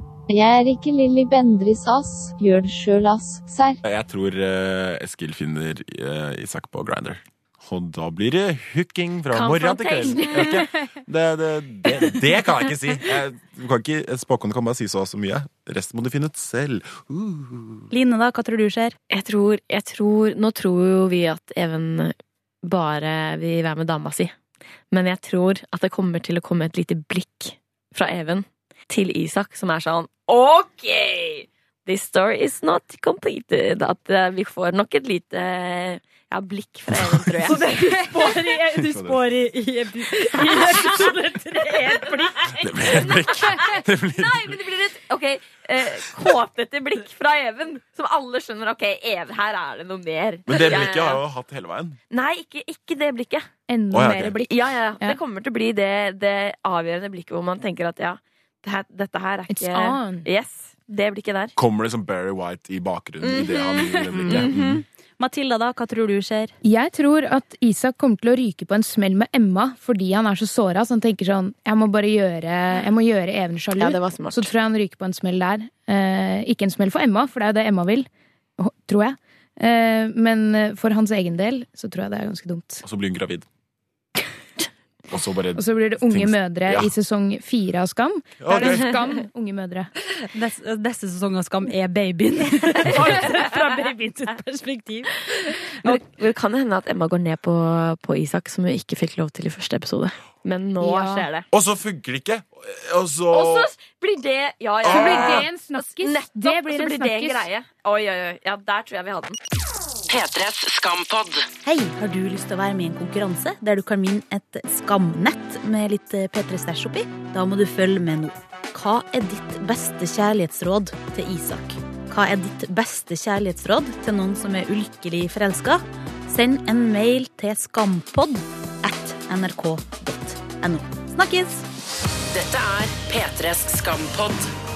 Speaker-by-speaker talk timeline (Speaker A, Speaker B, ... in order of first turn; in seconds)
Speaker A: 0.3-3.8
Speaker B: 3.8-17.9, 36.9-37.3, 38.7-39.2, 42.5-44.6, 50.5-52.0, 53.9-54.4, 61.5-64.8, 82.8-83.5, 85.1-86.9, 88.4-89.0, 101.5-103.7, 104.8-105.5
Speaker C: 9.3-10.7, 19.1-24.3, 24.9-38.2, 40.4-41.0, 42.8-51.2, 52.1-53.5, 54.5-61.5, 63.2-64.6, 73.8-74.5, 88.6-88.9, 95.8-101.5, 103.3-109.3
Speaker D: 17.9-18.9, 37.5-42.6, 64.1-66.5, 90.3-95.1, 111.6-131.7
Speaker E: 53.7-55.2, 59.5-60.3, 66.6-82.8, 85.5-89.9, 100.8-101.3, 104.8-107.5
Speaker F: 110.1-111.5, 132.3-134.5